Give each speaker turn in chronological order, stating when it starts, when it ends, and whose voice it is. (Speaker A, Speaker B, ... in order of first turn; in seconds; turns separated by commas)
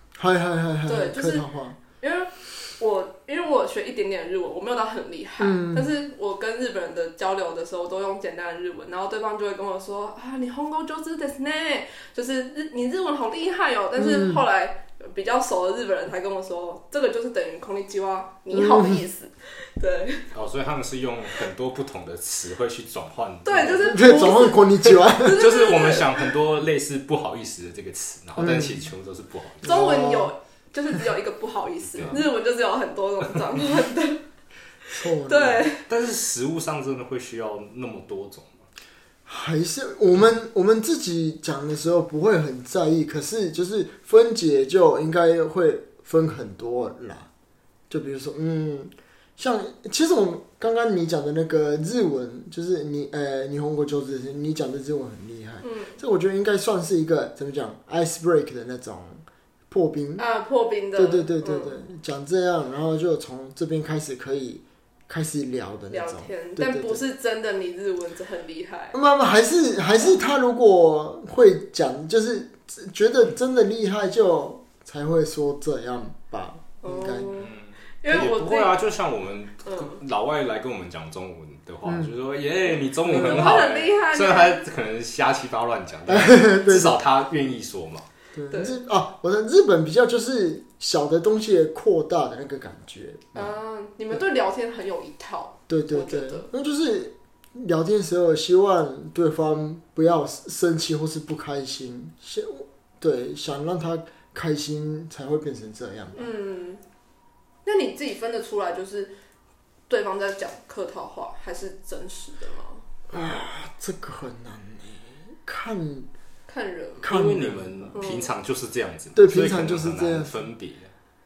Speaker A: 0.2-1.8, Speaker B: 0.9-1.4, Speaker B: 2.0-20.2, Speaker A: 5.4-5.9, Speaker A: 14.0-14.4, Speaker A: 18.5-19.0, Speaker C: 20.3-29.8, Speaker B: 23.4-26.3, Speaker A: 23.8-25.4, Speaker A: 28.4-28.8, Speaker A: 29.6-30.3, Speaker B: 29.6-34.2, Speaker C: 31.9-32.2, Speaker B: 34.9-35.8, Speaker A: 34.9-35.7, Speaker C: 35.9-38.6, Speaker A: 39.3-47.3, Speaker A: 47.9-60.2, Speaker B: 55.6-56.0, Speaker B: 60.2-61.8, Speaker A: 61.0-67.0, Speaker B: 65.9-69.0, Speaker A: 68.9-77.3, Speaker B: 76.8-78.8, Speaker C: 77.3-88.0, Speaker B: 79.6-80.0, Speaker A: 81.8-82.1, Speaker B: 83.1-84.6, Speaker A: 86.1-87.0, Speaker A: 88.3-93.5, Speaker B: 88.5-88.8, Speaker B: 93.3-96.5, Speaker A: 95.7-106.3, Speaker B: 106.1-106.8, Speaker B: 107.6-109.1, Speaker B: 109.9-112.8, Speaker A: 113.1-116.1, Speaker B: 116.5-117.1, Speaker A: 117.0-118.0, Speaker C: 117.1-120.9, Speaker B: 117.9-118.3, Speaker A: 119.1-120.5